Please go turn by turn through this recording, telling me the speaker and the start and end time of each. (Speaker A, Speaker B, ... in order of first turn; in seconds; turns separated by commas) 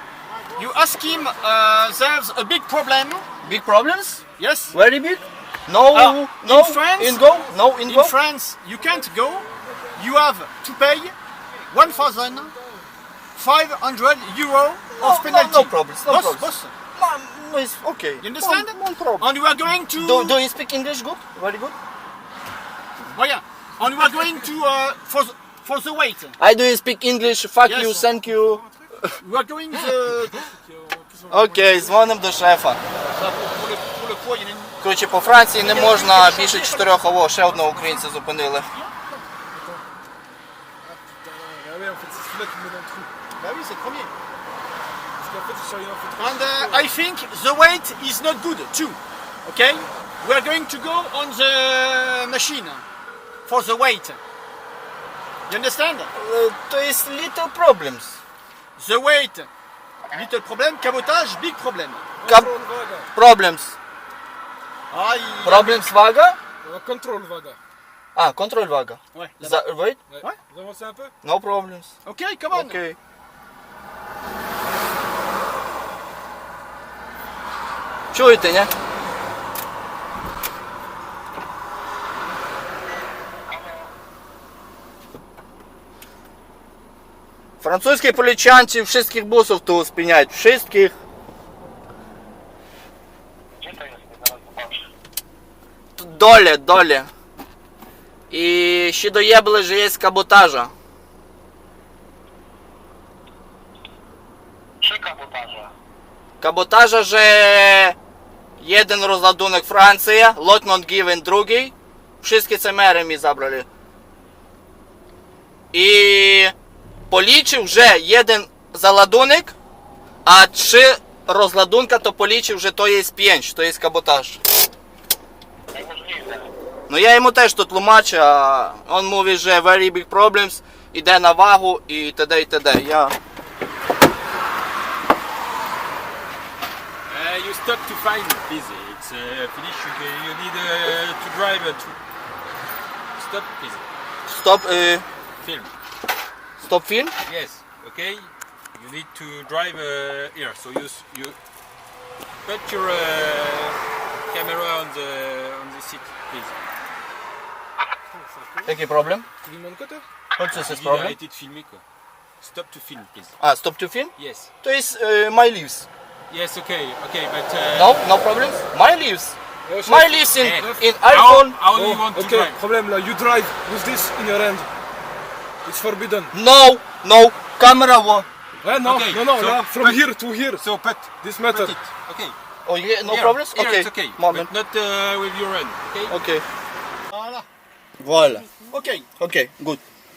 Speaker A: 0.3-2.0, Speaker B: 0.6-3.3, Speaker A: 3.3-3.7, Speaker C: 3.4-4.2, Speaker B: 4.4-4.8, Speaker C: 4.7-8.1, Speaker B: 5.9-7.2, Speaker A: 7.0-7.7, Speaker B: 7.8-11.2, Speaker A: 8.7-10.3, Speaker A: 11.4-12.9, Speaker B: 11.7-12.5, Speaker B: 13.3-16.7, Speaker A: 14.9-15.2, Speaker C: 15.0-19.3, Speaker B: 18.2-20.4, Speaker C: 20.0-21.8, Speaker B: 23.1-26.4, Speaker C: 26.4-29.1, Speaker B: 27.6-28.1, Speaker A: 28.3-28.7, Speaker B: 29.2-30.5, Speaker A: 30.3-32.0, Speaker C: 31.3-32.8, Speaker B: 33.1-34.8, Speaker C: 34.8-38.7, Speaker B: 35.6-37.0, Speaker B: 37.5-38.0, Speaker B: 38.7-39.3, Speaker A: 39.5-39.8, Speaker A: 40.8-43.1, Speaker B: 43.4-44.1, Speaker A: 45.2-46.9, Speaker B: 46.2-52.9, Speaker B: 53.5-54.2, Speaker B: 55.5-56.1, Speaker C: 56.1-58.2, Speaker B: 58.8-59.5, Speaker B: 60.1-62.0, Speaker A: 62.2-63.1, Speaker C: 62.3-62.5, Speaker C: 63.1-63.8, Speaker B: 64.9-65.8, Speaker C: 65.5-66.4, Speaker A: 66.6-67.6, Speaker C: 68.2-70.0, Speaker B: 69.1-69.6, Speaker A: 70.1-71.1, Speaker C: 71.2-71.9, Speaker B: 72.0-72.8, Speaker C: 72.5-73.0, Speaker C: 78.1-78.7, Speaker D: 83.5-83.9, Speaker C: 87.6-91.0, Speaker D: 93.5-94.9, Speaker C: 96.0-97.1, Speaker C: 98.3-100.7, Speaker D: 104.8-105.7, Speaker C: 106.4-108.0, Speaker C: 108.6-113.7, Speaker C: 115.7-116.5, Speaker C: 117.1-119.5, Speaker C: 120.2-124.4, Speaker D: 125.7-126.5, Speaker C: 126.9-133.2, Speaker E: 137.1-142.0, Speaker E: 143.2-143.8, Speaker C: 144.3-145.1, Speaker E: 145.4-145.7, Speaker C: 146.6-147.1, Speaker E: 147.2-151.4, Speaker E: 152.4-153.8, Speaker E: 154.3-156.5, Speaker A: 158.2-158.7, Speaker C: 158.7-159.3, Speaker A: 159.4-160.1, Speaker C: 160.4-161.2, Speaker E: 160.5-161.8, Speaker E: 162.4-163.3, Speaker C: 163.4-165.9, Speaker E: 164.2-164.5, Speaker E: 166.3-168.0, Speaker C: 167.7-171.6, Speaker A: 169.7-170.8, Speaker E: 170.4-172.6, Speaker A: 171.7-174.7, Speaker A: 175.7-176.3, Speaker C: 176.3-178.3, Speaker A: 178.6-180.7, Speaker E: 178.7-180.0, Speaker E: 180.6-181.1, Speaker A: 181.2-181.8, Speaker B: 181.4-181.9, Speaker E: 182.1-182.4, Speaker C: 182.7-184.5, Speaker E: 183.1-186.2, Speaker C: 186.1-186.4, Speaker B: 187.1-187.5, Speaker C: 188.0-188.4, Speaker B: 188.7-189.1, Speaker C: 189.2-189.8